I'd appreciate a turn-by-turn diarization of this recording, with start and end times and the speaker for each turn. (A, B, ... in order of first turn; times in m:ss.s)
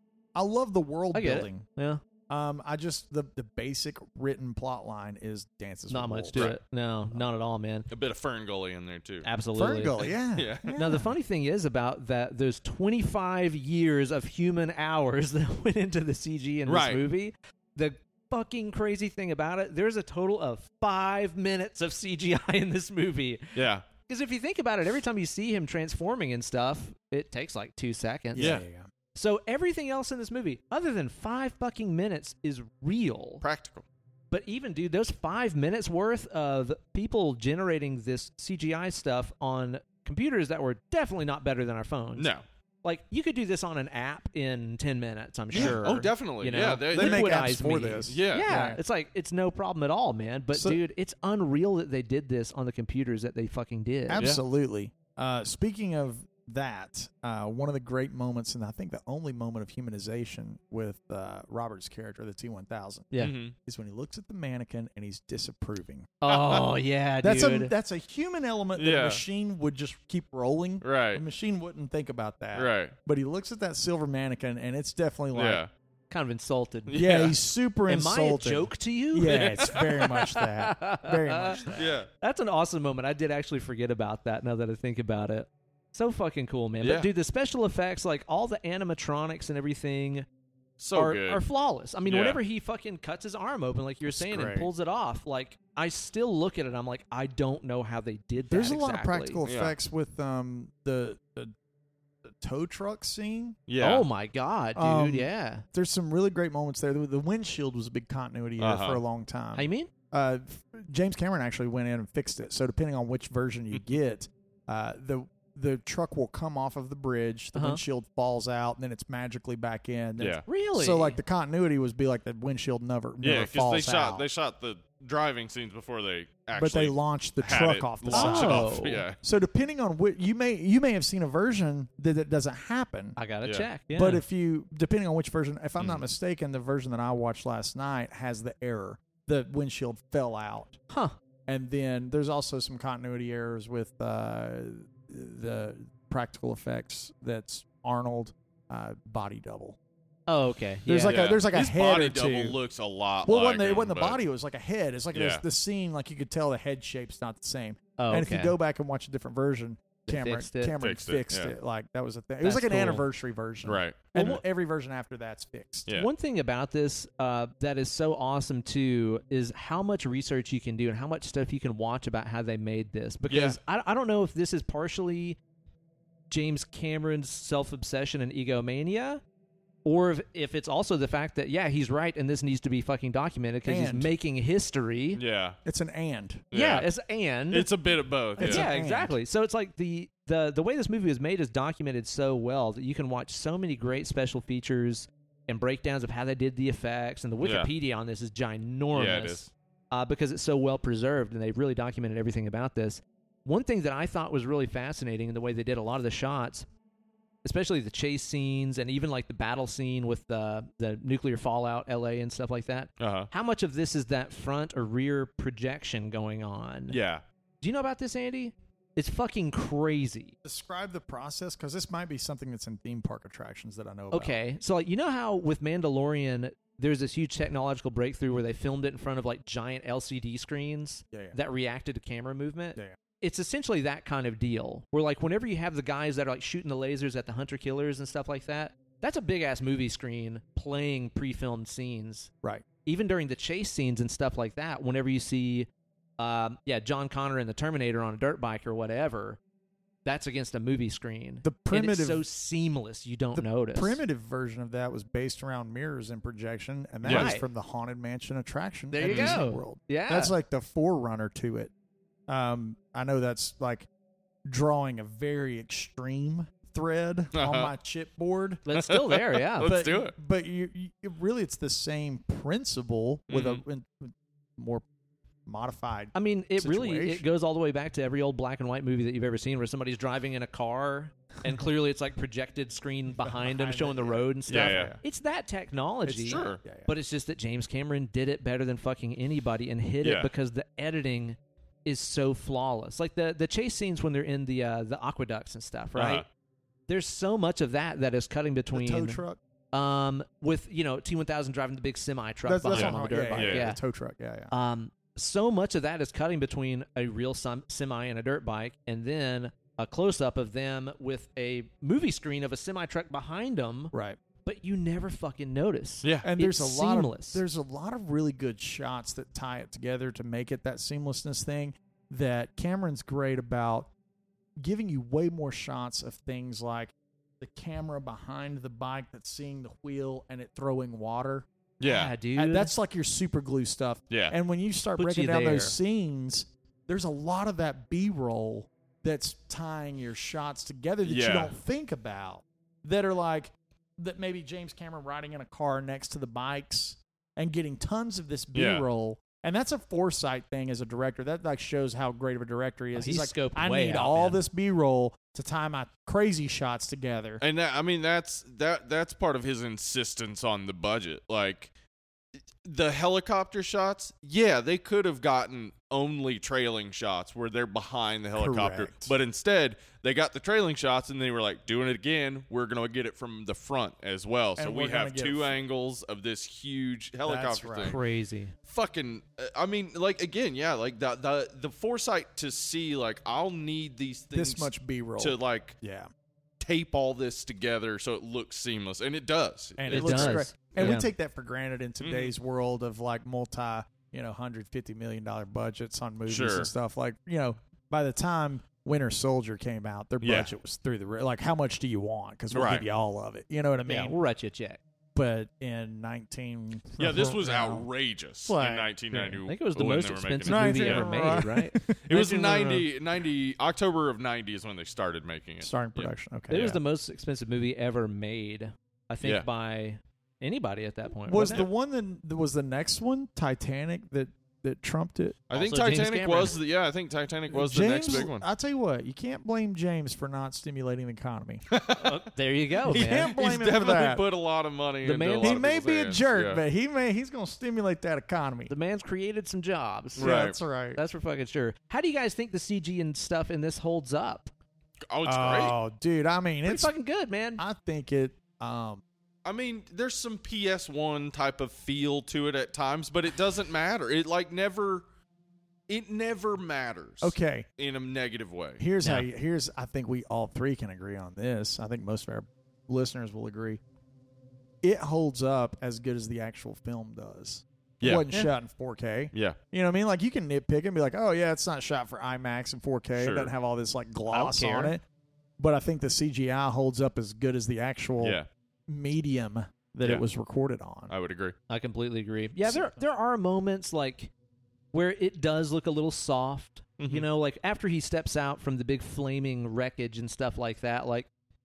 0:00.3-0:01.6 A
0:01.1-0:02.0 B
0:02.3-0:06.5 A
0:05.9-0:07.9 B
0:06.3-0:06.6 C
0:07.9-0:09.3 C
0:09.2-0:10.0 B
0:09.5-0:11.1 A
0:10.0-0:10.8 C
0:10.7-0:28.5 B
0:16.6-0:17.0 C
0:23.5-0:23.8 C
0:28.3-0:28.9 A
0:28.4-0:28.6 C
0:29.1-0:33.4 B
0:33.4-0:33.8 C
0:34.3-0:42.3 B
0:42.2-0:42.4 C
0:42.8-0:54.2 B
0:45.5-0:45.8 A
0:45.5-0:47.3 C
0:46.9-0:48.8 A
0:48.1-0:48.5 C
0:50.5-0:50.8 A
0:54.1-1:06.2 A
1:03.2-1:03.5 C
1:06.2-1:07.7 B
1:06.3-1:06.7 C
1:07.2-1:15.6 A
1:08.8-1:09.2 C
1:10.8-1:11.2 C
1:12.5-1:12.9 C
1:15.3-1:15.7 C
1:16.1-1:17.2 B
1:16.9-1:17.3 C
1:16.9-1:21.9 A
1:17.9-1:30.2 B
1:21.7-1:22.1 C
1:26.8-1:27.1 C
1:30.8-1:31.4 C
1:30.9-1:39.4 B
1:32.0-1:32.4 C
1:34.1-1:34.6 C
1:34.3-1:34.7 A
1:38.5-1:41.5 A
1:39.4-1:39.7 C
1:42.2-1:43.6 A
1:43.7-1:44.0 C
1:43.8-1:45.6 B
1:44.7-2:04.2 A
1:48.6-1:49.0 C
1:49.5-1:49.9 B
1:57.5-1:57.8 B
2:00.2-2:00.4 C
2:00.4-2:01.2 B
2:03.2-2:09.2 C
2:06.6-2:13.2 A
2:08.1-2:09.0 B
2:13.2-2:14.2 B
2:13.4-2:13.7 C
2:13.9-2:20.8 A
2:20.9-2:21.1 B
2:21.5-2:29.8 A
2:30.3-2:31.2 B
2:30.8-2:32.6 A
2:31.0-2:34.2 C
2:33.2-2:45.9 A
2:35.1-2:35.4 C
2:38.0-2:38.5 B
2:40.1-2:40.7 B
2:40.8-2:41.5 C
2:42.4-2:43.0 B
2:43.6-2:44.4 C
2:45.9-2:55.4 B
2:53.3-2:53.6 C
2:56.3-2:59.2 B
2:59.8-3:05.2 B
3:03.6-3:04.1 A
3:05.1-3:05.6 C
3:05.6-3:06.4 A
3:06.5-3:06.9 C
3:06.5-3:07.7 B
3:07.5-3:08.7 C
3:08.4-3:09.2 A
3:08.4-3:26.6 B
3:17.4-3:17.7 C
3:18.9-3:19.5 C
3:27.4-3:37.0 B
3:33.0-3:33.3 C
3:36.9-3:37.2 C
3:37.6-3:40.3 B
3:40.4-3:44.4 A
3:44.1-4:02.3 B
4:02.8-4:05.7 B
4:06.2-4:09.4 B
4:10.0-4:14.0 B
4:11.4-4:12.2 A
4:13.3-4:21.7 A
4:17.0-4:17.3 C
4:17.0-4:17.4 B
4:18.9-4:20.3 B
4:19.0-4:19.4 C
4:22.3-4:23.9 A
4:24.4-4:28.6 A
4:27.3-4:27.7 C
4:28.6-4:29.8 B
4:28.7-4:30.1 C
4:29.6-4:34.8 A
4:33.3-4:33.6 C
4:35.4-4:37.2 A
4:36.1-4:56.2 B
4:43.2-4:45.0 A
4:44.5-4:44.9 C
4:46.0-4:46.9 A
4:46.2-4:46.6 C
4:50.0-4:50.3 C
4:55.9-4:56.2 C
4:56.9-4:59.2 B
4:58.7-4:59.4 A
4:59.7-5:03.8 B
5:02.4-5:04.5 A
5:02.7-5:03.7 C
5:04.5-5:13.9 B
5:13.9-5:14.2 A
5:14.4-5:17.4 B
5:16.0-5:16.3 C
5:16.2-5:23.9 A
5:24.6-5:31.5 A
5:31.8-5:32.1 C
5:31.8-5:32.7 B
5:32.4-5:57.4 A
5:34.1-5:34.3 C
5:35.0-5:35.7 B
5:41.0-5:41.5 C
5:48.5-5:48.8 C
5:52.9-5:54.4 B
5:57.4-6:01.7 C
6:02.6-6:18.0 C
6:08.4-6:09.1 A
6:14.6-6:15.6 A
6:17.2-6:18.0 A
6:17.8-6:18.5 B
6:18.6-6:25.8 C
6:24.3-6:26.1 A
6:26.6-6:31.0 C
6:29.8-6:44.2 A
6:29.9-6:31.1 B
6:32.0-6:32.3 C
6:36.2-6:36.7 C
6:40.2-6:40.5 C
6:42.5-6:42.8 C
6:43.8-6:44.8 B
6:45.1-6:47.9 A
6:47.0-6:51.5 C
6:48.4-6:49.4 A
6:49.4-6:52.8 B
6:50.4-6:52.0 A
6:52.0-6:56.1 C
6:55.6-6:56.8 A
6:56.5-7:01.6 B
7:01.3-7:05.4 A
7:05.5-7:08.4 C
7:05.5-7:06.6 B
7:07.5-7:11.6 A
7:11.7-7:12.3 C
7:12.0-7:13.3 B
7:12.8-7:16.6 C
7:12.8-7:14.2 A
7:15.0-7:15.6 B
7:15.4-7:18.7 A
7:18.7-7:20.3 B
7:20.2-7:20.6 C
7:20.2-7:21.0 A
7:20.9-7:24.5 B
7:25.1-7:25.8 C
7:25.2-7:26.9 A
7:26.6-7:27.6 B
7:27.6-7:29.0 A
7:29.4-7:35.0 C
7:35.9-7:38.8 C
7:37.2-7:37.6 A
7:38.8-7:43.8 A
7:44.8-7:55.0 A
7:48.0-7:48.2 C
7:53.2-7:53.5 C
7:54.3-7:55.0 B
7:55.6-8:01.1 A
7:58.2-7:58.5 C
8:01.1-8:01.5 C
8:01.7-8:04.3 B
8:02.6-8:03.0 A
8:04.9-8:11.3 B
8:07.0-8:07.2 C